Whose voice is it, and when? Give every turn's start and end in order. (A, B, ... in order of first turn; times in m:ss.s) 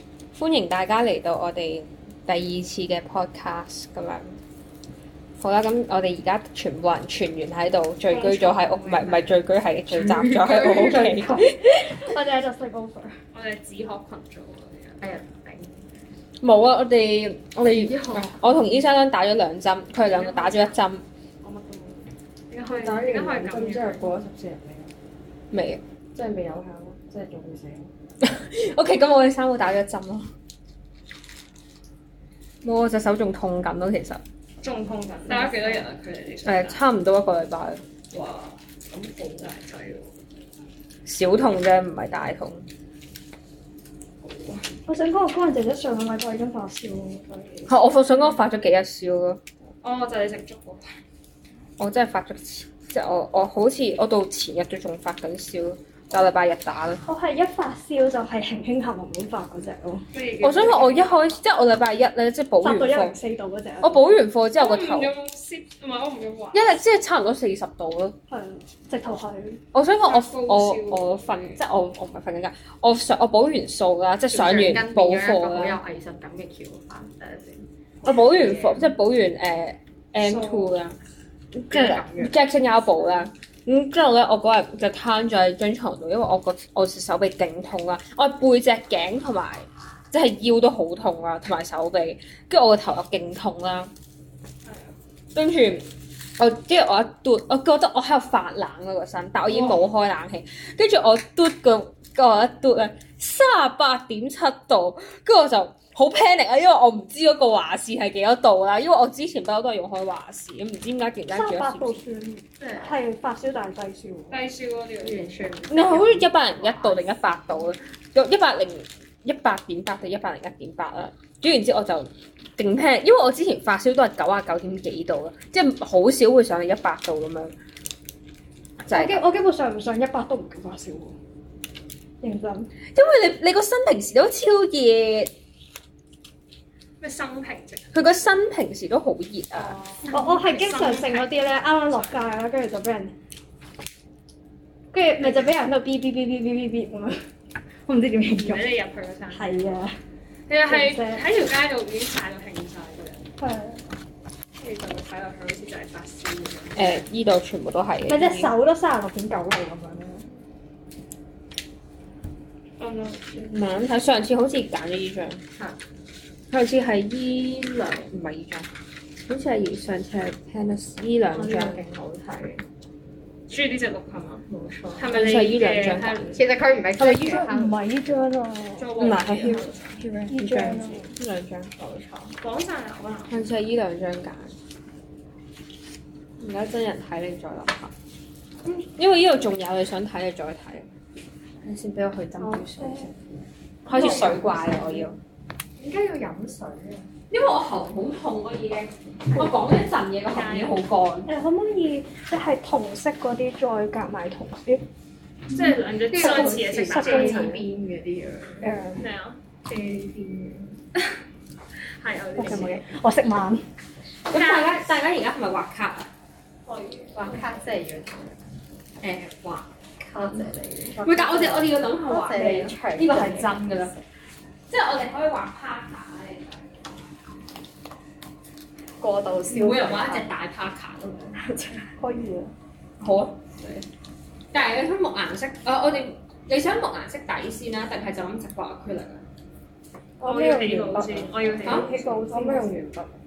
0:00.3-0:04.4 A
0:05.4-0:12.1 A
0:08.1-0:09.1 B
0:10.0-0:11.1 C
0:10.5-0:13.2 D
0:13.3-0:15.0 B
0:15.0-0:15.8 C
0:16.4-0:21.0 A
0:17.6-0:18.5 C
0:20.1-0:20.8 B
0:21.4-0:22.0 E
0:22.5-0:24.1 B
0:22.6-0:24.9 E
0:25.5-0:25.8 A
0:26.1-0:27.9 E
0:28.2-0:30.3 A
0:32.6-0:34.2 A
0:34.6-0:36.8 B
0:36.4-0:37.8 A
0:38.1-0:40.1 B
0:41.0-0:42.6 A
0:44.2-0:44.6 B
0:44.9-0:47.5 D
0:47.7-0:49.4 A
0:49.8-0:50.8 B
0:51.8-0:57.0 A
0:57.0-1:00.1 D
1:00.1-1:01.4 B
1:00.4-1:03.2 A
1:02.6-1:04.1 D
1:03.8-1:05.1 A
1:04.6-1:06.6 B
1:06.5-1:08.2 A
1:08.3-1:09.6 D
1:09.7-1:15.8 A
1:10.0-1:11.6 B
1:14.3-1:17.6 C
1:18.0-1:21.0 A
1:18.1-1:18.8 B
1:20.2-1:20.8 B
1:21.5-1:33.9 A
1:21.7-1:22.4 C
1:34.6-1:34.9 B
1:35.3-1:52.0 A
1:51.3-1:54.4 D
1:52.6-1:52.9 C
1:54.3-1:55.4 B
1:55.0-1:57.1 C
1:55.7-2:07.5 A
2:08.8-2:09.2 A
2:08.9-2:11.2 D
2:12.2-2:12.7 D
2:12.9-2:15.3 A
2:17.0-2:17.9 B
2:17.9-2:19.8 A
2:19.5-2:22.2 B
2:20.1-2:23.1 D
2:24.9-2:27.2 D
2:27.8-2:28.7 D
2:28.3-2:29.8 B
2:29.3-2:30.0 D
2:30.5-2:33.2 B
2:30.7-2:31.3 D
2:33.4-2:33.8 D
2:34.6-2:37.0 B
2:36.8-2:38.5 A
2:38.1-2:40.2 D
2:42.8-2:43.4 B
2:43.4-2:45.4 A
2:46.5-2:48.7 A
2:49.2-2:51.8 A
2:51.3-2:52.6 C
2:53.5-2:54.4 B
2:54.4-2:55.2 C
2:55.0-2:56.4 B
2:55.0-2:56.4 A
2:56.3-2:57.8 C
2:57.0-2:59.0 D
2:58.8-3:00.0 B
2:59.0-3:01.7 A
3:00.3-3:01.1 D
3:00.3-3:01.0 C
3:01.8-3:02.4 C
3:02.4-3:03.3 B
3:03.3-3:04.5 A
3:06.4-3:07.9 A
3:08.6-3:10.9 A
3:11.6-3:13.1 A
3:12.4-3:13.1 D
3:13.8-3:15.2 A
3:13.9-3:15.0 C
3:14.0-3:14.4 D
3:15.8-3:17.1 C
3:17.3-3:21.3 A
3:19.3-3:19.6 C
3:20.3-3:20.8 B
3:21.2-3:24.8 D
3:25.5-3:27.6 B
3:26.1-3:28.7 C
3:26.1-3:27.6 D
3:28.6-3:29.0 D
3:29.0-3:29.4 B
3:29.7-3:30.8 C
3:32.0-3:32.8 B
3:32.3-3:33.6 D
3:34.3-3:36.1 A
3:34.3-3:34.9 B
3:36.6-3:37.4 B
3:37.1-3:38.4 C
3:39.0-3:39.7 A
3:40.0-3:44.0 C
3:41.0-3:43.9 A
3:44.7-3:46.6 A
3:49.0-3:50.3 C
3:49.5-3:51.4 A
3:51.4-3:51.9 C
3:52.0-3:52.5 D
3:53.0-3:53.8 A
3:54.5-3:59.2 A
4:00.2-4:01.0 D
4:00.2-4:01.9 B
4:00.5-4:03.2 E
4:01.6-4:02.8 D